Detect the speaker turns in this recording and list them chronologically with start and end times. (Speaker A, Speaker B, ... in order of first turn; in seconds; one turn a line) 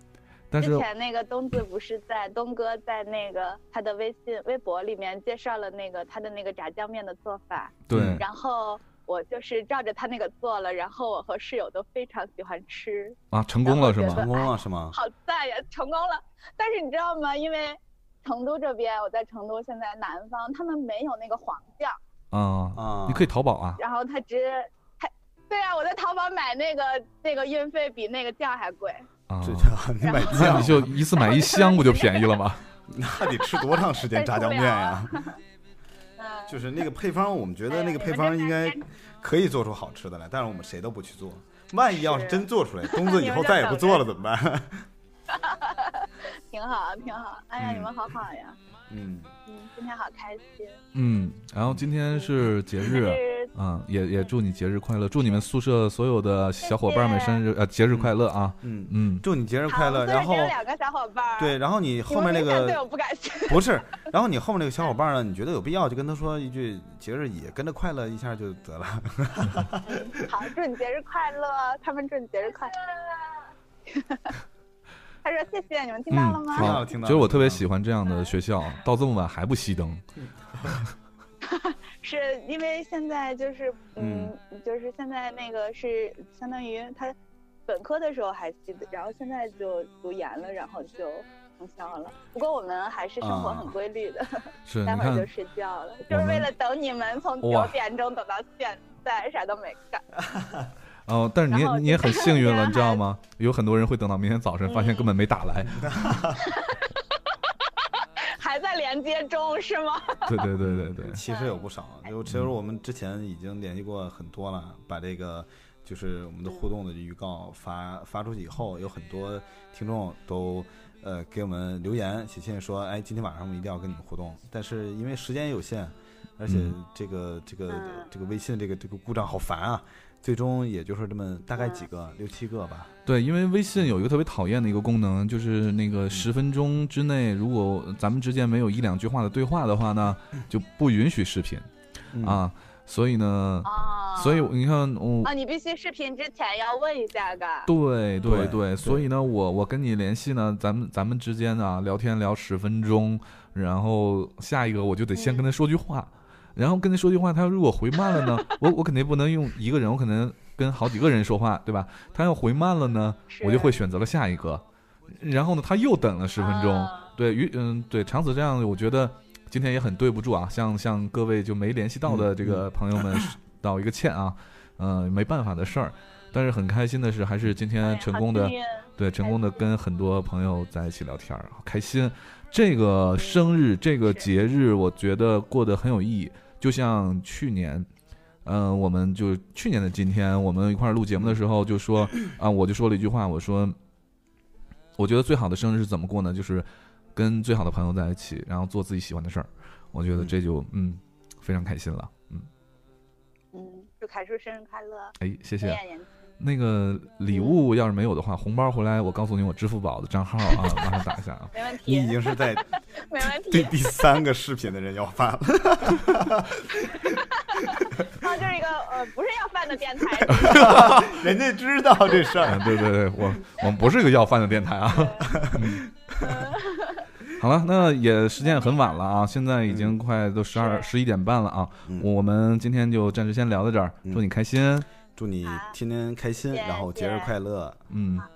Speaker A: 0.5-0.8
Speaker B: 0.6-22.0
Speaker A: 7.9-8.2
Speaker C: 7.9-8.2
Speaker A: 13.3-14.3
Speaker C: 14.1-15.0
Speaker A: 22.3-23.8
Speaker C: 22.8-23.3
Speaker B: 23.8-29.1
Speaker A: 29.3-29.7
Speaker C: 29.4-31.0
Speaker B: 30.0-30.5
Speaker A: 30.3-32.6
Speaker B: 31.1-32.4
Speaker C: 32.9-35.2
Speaker B: 33.4-35.1
Speaker B: 36.2-36.6
Speaker C: 36.5-44.9
Speaker B: 37.7-38.8
Speaker B: 41.9-44.0
Speaker B: 45.3-48.6
Speaker C: 47.6-47.9
Speaker C: 48.9-49.3
Speaker B: 49.5-50.8
Speaker A: 50.9-59.2
Speaker B: 52.1-53.5
Speaker B: 56.6-57.4
Speaker C: 57.9-60.5
Speaker B: 59.7-61.5
Speaker C: 61.4-62.8
Speaker B: 62.1-63.6
Speaker C: 63.5-69.8
Speaker B: 70.0-72.9
Speaker B: 73.9-74.3
Speaker B: 75.2-76.7
Speaker A: 76.1-80.0
Speaker C: 76.5-77.6
Speaker B: 81.5-87.1
Speaker C: 84.0-84.3
Speaker B: 87.7-100.0
Speaker C: 93.2-93.7
Speaker A: 94.7-95.3
Speaker A: 96.1-96.5
Speaker A: 97.4-97.8
Speaker A: 101.1-105.9
Speaker B: 101.5-103.0
Speaker B: 104.7-105.1
Speaker C: 105.8-106.3
Speaker B: 108.3-110.4
Speaker A: 110.3-111.2
Speaker C: 110.6-132.9
Speaker B: 111.2-111.6
Speaker A: 126.5-126.7
Speaker B: 127.7-128.1
Speaker A: 133.1-141.7
Speaker C: 142.1-142.4
Speaker A: 142.2-145.3
Speaker B: 143.6-144.5
Speaker B: 145.2-147.7
Speaker A: 147.7-187.9
Speaker C: 148.2-149.1
Speaker B: 155.1-155.4
Speaker B: 158.0-158.5
Speaker B: 163.3-163.7
Speaker B: 166.4-167.1
Speaker C: 172.1-172.6
Speaker B: 177.8-179.7
Speaker B: 183.2-184.2
Speaker A: 188.4-193.8
Speaker A: 195.0-202.5
Speaker B: 203.5-206.1
Speaker A: 205.2-205.8
Speaker A: 206.4-211.5
Speaker B: 207.3-207.6
Speaker B: 211.5-212.2
Speaker C: 211.8-212.7
Speaker B: 213.1-214.1
Speaker C: 213.3-217.1
Speaker B: 218.2-220.5
Speaker A: 220.3-221.2
Speaker C: 220.4-222.7
Speaker A: 222.4-225.8
Speaker B: 224.9-225.2
Speaker C: 225.3-226.3
Speaker B: 226.3-227.0
Speaker A: 227.4-234.9
Speaker B: 228.4-228.9
Speaker C: 229.7-229.9
Speaker B: 230.5-230.9
Speaker C: 235.1-237.8
Speaker B: 235.4-235.7
Speaker B: 236.5-237.3
Speaker A: 237.9-238.3